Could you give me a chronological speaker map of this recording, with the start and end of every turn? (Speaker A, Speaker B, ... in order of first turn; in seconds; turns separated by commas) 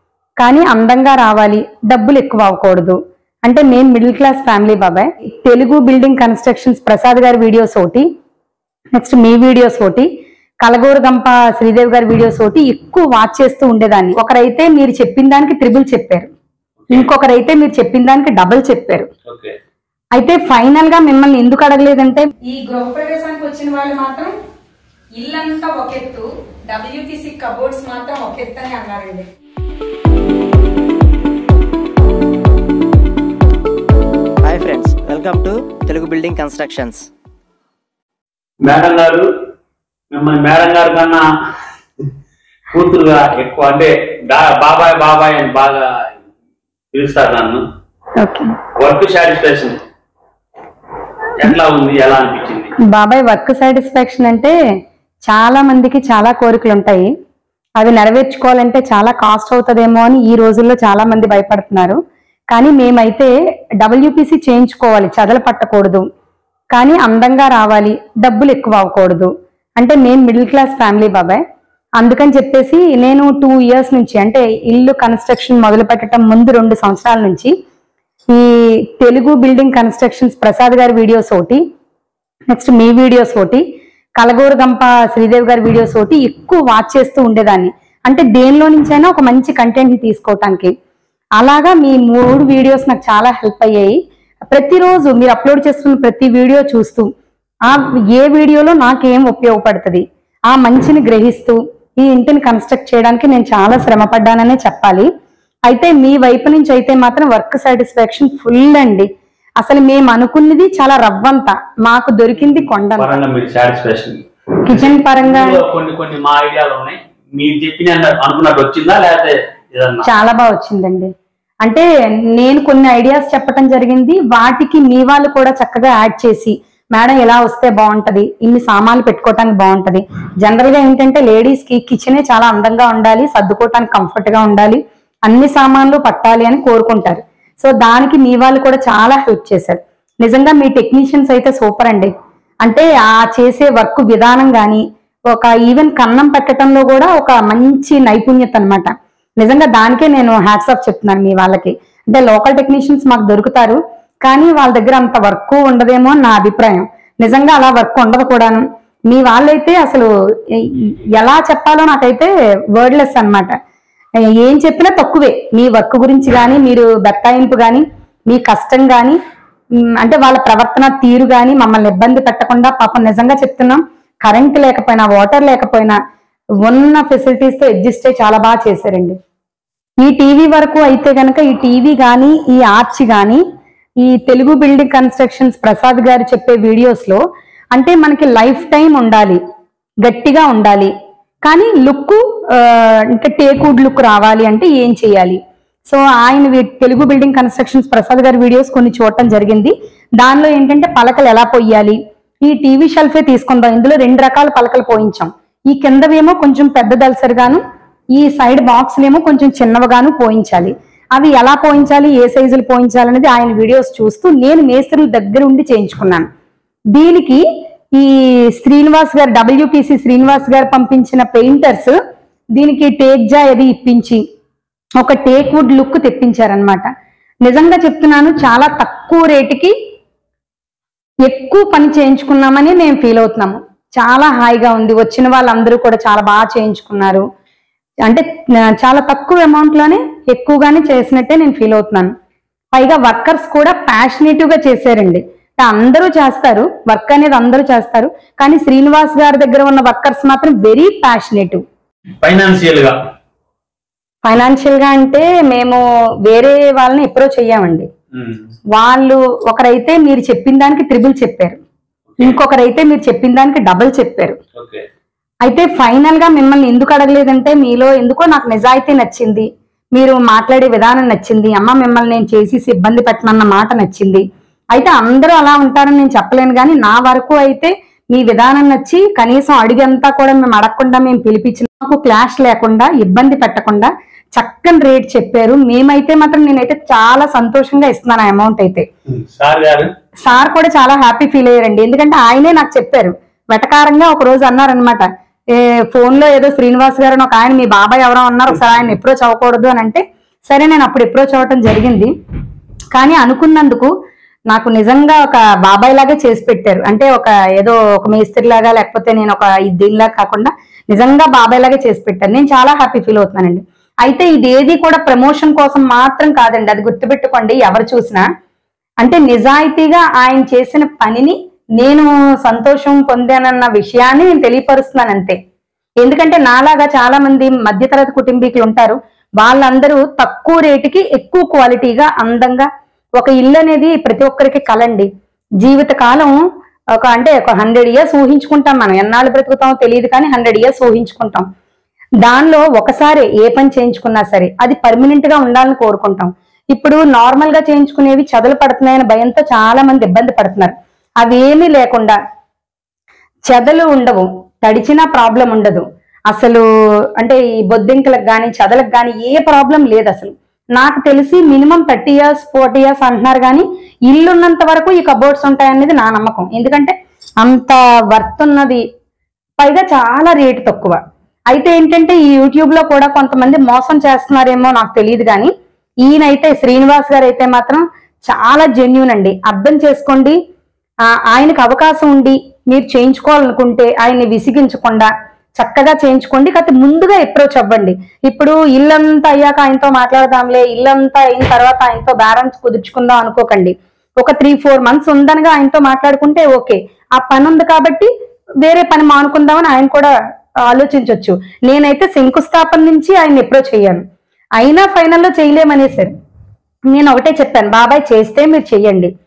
Speaker A: 0.4-8.1, Speaker A: 9.0-10.1, Speaker A: 10.6-16.3, Speaker A: 16.9-19.1, Speaker B: 19.3-19.6, Speaker A: 20.2-24.3, Speaker A: 25.2-29.3, Speaker C: 34.4-37.1, Speaker B: 38.6-39.2, Speaker B: 40.1-41.2, Speaker B: 42.7-46.1, Speaker B: 46.9-47.6, Speaker A: 48.2-48.5, Speaker B: 48.8-49.8, Speaker B: 51.4-52.7, Speaker A: 52.9-54.5, Speaker A: 55.3-57.1, Speaker A: 57.8-62.0, Speaker A: 62.5-63.3, Speaker A: 63.8-66.0, Speaker A: 66.7-71.4, Speaker A: 72.0-77.5, Speaker A: 79.0-81.6, Speaker A: 82.5-83.6, Speaker A: 84.2-90.7, Speaker A: 91.4-94.0, Speaker A: 94.5-97.1, Speaker A: 97.7-105.1, Speaker A: 105.7-109.1, Speaker A: 109.6-113.2, Speaker B: 113.0-120.0, Speaker A: 114.7-115.6, Speaker A: 120.0-121.1, Speaker A: 121.6-142.1, Speaker A: 142.6-163.5, Speaker A: 164.4-169.2, Speaker A: 170.0-176.0, Speaker A: 176.7-179.2, Speaker A: 180.0-183.4, Speaker A: 184.0-187.2, Speaker A: 187.7-189.4, Speaker A: 190.0-190.9, Speaker A: 191.4-207.6, Speaker A: 208.2-216.3, Speaker A: 216.9-217.4, Speaker A: 218.0-221.9, Speaker A: 222.6-224.2, Speaker A: 225.0-226.9, Speaker A: 227.4-229.7, Speaker A: 231.3-237.2, Speaker A: 238.8-242.1, Speaker A: 242.8-251.6, Speaker B: 252.2-253.0, Speaker A: 254.2-257.9, Speaker B: 258.1-258.4, Speaker A: 258.7-261.6, Speaker A: 262.2-264.4, Speaker B: 264.6-264.9, Speaker A: 265.4-274.2, Speaker A: 274.8-288.9, Speaker B: 289.1-289.9, Speaker A: 290.2-302.1, Speaker A: 302.9-303.9, Speaker A: 304.5-318.3, Speaker A: 319.0-325.4, Speaker A: 326.0-332.7, Speaker A: 333.2-335.1, Speaker A: 335.6-336.4, Speaker A: 337.0-341.5, Speaker A: 342.2-352.2, Speaker A: 353.5-356.6, Speaker A: 357.2-368.8, Speaker A: 369.6-371.0, Speaker A: 371.5-375.5, Speaker A: 376.1-380.4, Speaker A: 381.3-398.1, Speaker A: 398.6-400.1, Speaker A: 400.7-404.0, Speaker A: 404.6-406.1, Speaker A: 406.9-409.1